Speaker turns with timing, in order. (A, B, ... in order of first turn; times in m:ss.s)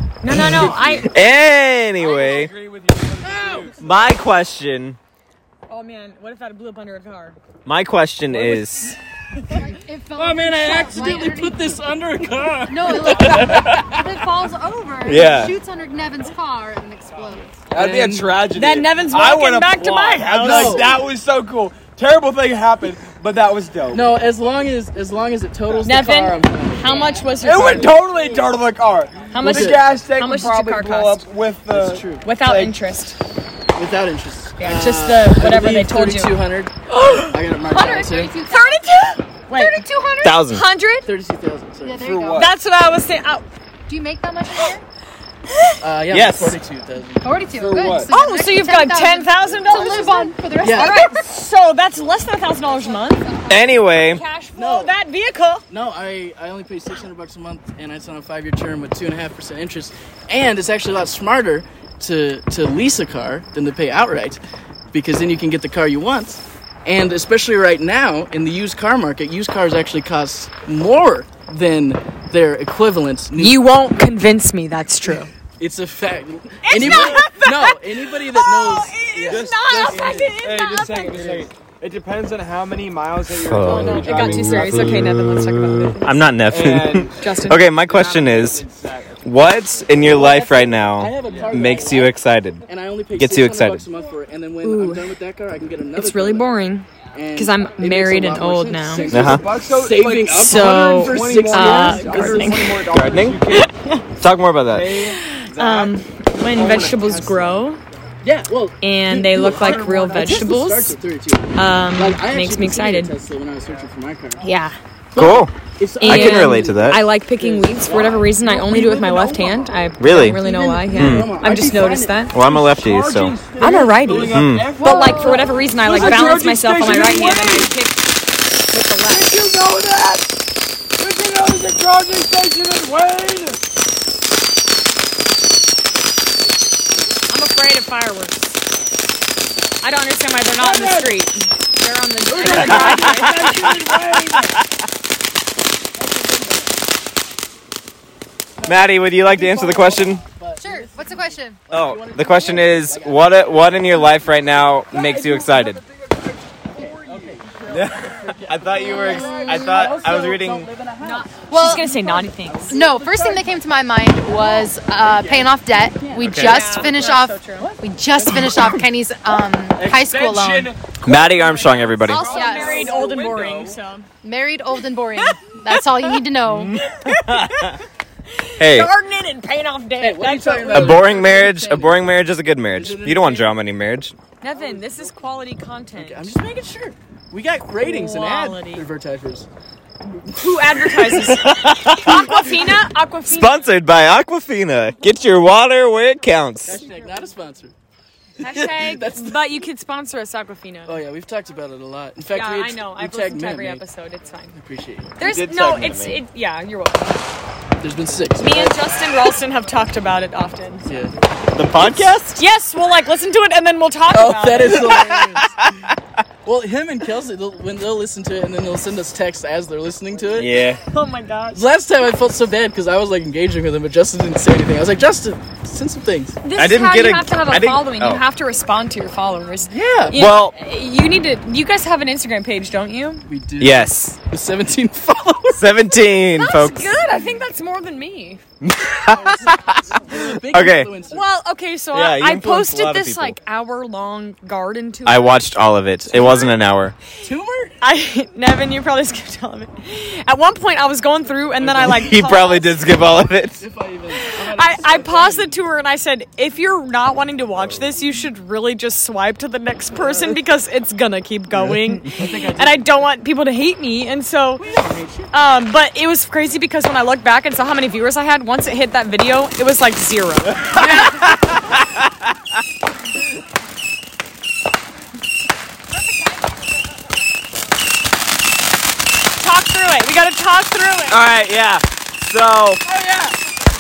0:00.2-0:01.1 A
0:00.3-0:02.5 B
0:02.0-0:03.8 C
0:03.2-0:03.8 D
0:03.8-0:05.0 B
0:05.7-0:07.4 A
0:07.6-0:09.0 B
0:08.4-0:08.9 C
0:09.5-0:11.8 E
0:10.2-0:13.8 D
0:12.7-0:17.6 E
0:13.3-0:13.8 B
0:15.0-0:15.6 B
0:17.7-0:24.1 C
0:17.8-0:18.4 D
0:18.5-0:20.9 A
0:20.4-0:21.0 D
0:23.9-0:27.2 D
0:25.8-0:28.0 A
0:27.4-0:32.8 C
0:29.3-0:31.2 A
0:29.4-0:29.8 D
0:31.7-0:32.3 D
0:32.2-0:33.2 A
0:33.8-0:38.3 D
0:34.6-0:36.4 A
0:36.9-0:37.4 A
0:37.6-0:38.9 E
0:38.4-0:41.1 A
0:39.5-0:40.4 E
0:40.2-0:40.6 B
0:41.0-0:42.1 D
0:41.8-0:42.5 E
0:42.0-0:42.5 C
0:42.4-0:43.5 A
0:43.9-0:44.8 E
0:45.5-0:45.8 A
0:45.8-0:47.4 D
0:46.1-0:46.6 B
0:47.2-0:51.2 E
0:47.5-0:48.1 C
0:48.1-0:53.4 A
0:50.6-0:51.0 D
0:53.5-0:54.2 B
0:54.1-0:55.7 A
0:54.5-0:55.0 D
0:55.7-1:04.4 D
1:04.9-1:13.6 D
1:13.4-1:15.3 A
1:15.6-1:19.5 D
1:16.6-1:21.5 A
1:16.8-1:17.3 C
1:19.2-1:25.0 C
1:23.3-1:28.6 B
1:23.6-1:26.2 A
1:26.5-1:30.2 C
1:27.2-1:27.6 A
1:29.2-1:32.6 B
1:30.0-1:32.1 D
1:31.3-1:31.6 C
1:32.7-1:36.5 D
1:33.2-1:33.8 B
1:34.6-1:35.1 A
1:36.0-1:39.1 A
1:37.1-1:42.6 D
1:39.1-1:43.7 C
1:39.1-1:39.4 B
1:40.3-1:42.8 A
1:42.9-1:43.4 B
1:43.5-1:44.0 A
1:44.2-1:45.0 B
1:44.7-1:46.0 C
1:45.0-1:47.8 A
1:46.5-1:47.6 C
1:48.2-1:54.4 D
1:48.8-1:51.0 A
1:49.4-1:50.4 C
1:51.6-1:53.1 A
1:54.4-1:54.8 A
1:55.1-1:59.6 D
1:55.2-1:57.0 B
1:56.0-2:02.4 A
1:58.0-1:59.7 C
2:00.0-2:00.4 B
2:00.2-2:02.3 D
2:00.9-2:01.3 B
2:02.3-2:03.4 B
2:02.4-2:07.7 C
2:03.6-2:08.0 A
2:04.2-2:04.7 B
2:05.0-2:05.4 D
2:08.7-2:09.4 A
2:09.0-2:10.3 C
2:11.0-2:13.6 C
2:17.3-2:18.6 A
2:19.8-2:23.6 A
2:20.6-2:21.1 C
2:22.3-2:24.5 D
2:22.4-2:24.5 C
2:22.5-2:23.8 B
2:26.0-2:26.7 D
2:28.6-2:34.0 D
2:28.7-2:30.2 B
2:30.6-2:31.6 E
2:31.7-2:35.8 B
2:34.9-2:35.6 D
2:35.1-2:35.4 C
2:36.7-2:37.8 C
2:36.8-2:43.6 D
2:37.7-2:40.7 B
2:38.8-2:39.8 E
2:41.0-2:42.8 A
2:41.5-2:41.9 E
2:42.7-2:50.7 E
2:44.2-2:45.5 D
2:46.2-2:46.6 B
2:46.4-2:47.7 A
2:49.8-2:53.8 C
2:51.0-2:52.2 B
2:52.0-2:54.1 A
2:52.1-2:53.0 E
2:52.6-2:53.2 D
2:54.2-2:56.7 E
2:56.5-2:57.8 B
2:56.8-2:57.8 A
2:58.3-3:01.0 A
2:58.6-2:58.9 B
3:00.0-3:02.0 D
3:00.7-3:04.2 B
3:02.8-3:03.5 D
3:04.4-3:06.3 A
3:06.0-3:09.5 D
3:07.8-3:08.8 A
3:10.3-3:13.7 A
3:11.1-3:12.7 B
3:13.3-3:16.8 B
3:16.6-3:17.7 D
3:18.4-3:21.0 A
3:18.4-3:19.4 D
3:20.9-3:23.8 D
3:22.3-3:24.6 A
3:24.5-3:25.2 D
3:25.2-3:27.2 A
3:25.2-3:26.2 B
3:27.8-3:28.8 D
3:28.4-3:30.9 A
3:30.9-3:32.1 D
3:31.5-3:32.4 B
3:32.4-3:35.4 A
3:34.1-3:35.5 D
3:36.4-3:40.6 D
3:40.4-3:40.8 B
3:40.8-3:41.7 A
3:41.5-3:46.4 D
3:46.4-3:53.3 A
3:46.6-3:48.2 B
3:49.7-3:50.2 D
3:50.1-3:50.6 B
3:53.3-3:55.7 D
3:53.6-3:54.2 B
3:55.5-3:56.9 B
3:56.4-3:58.4 A
3:58.6-3:59.9 B
3:59.1-4:01.3 D
4:00.4-4:00.9 B
4:01.1-4:05.3 A
4:01.9-4:03.4 B
4:05.1-4:07.0 B
4:06.1-4:06.5 D
4:07.2-4:07.8 D
4:07.8-4:12.8 A
4:11.6-4:12.1 D
4:11.8-4:13.6 B
4:13.6-4:15.6 D
4:14.2-4:24.8 A
4:22.1-4:23.0 D
4:24.6-4:25.3 D
4:25.3-4:30.8 A
4:30.8-4:31.3 D
4:31.3-4:31.7 B
4:39.4-4:41.2 A
4:41.1-4:42.8 B
4:42.8-4:43.3 D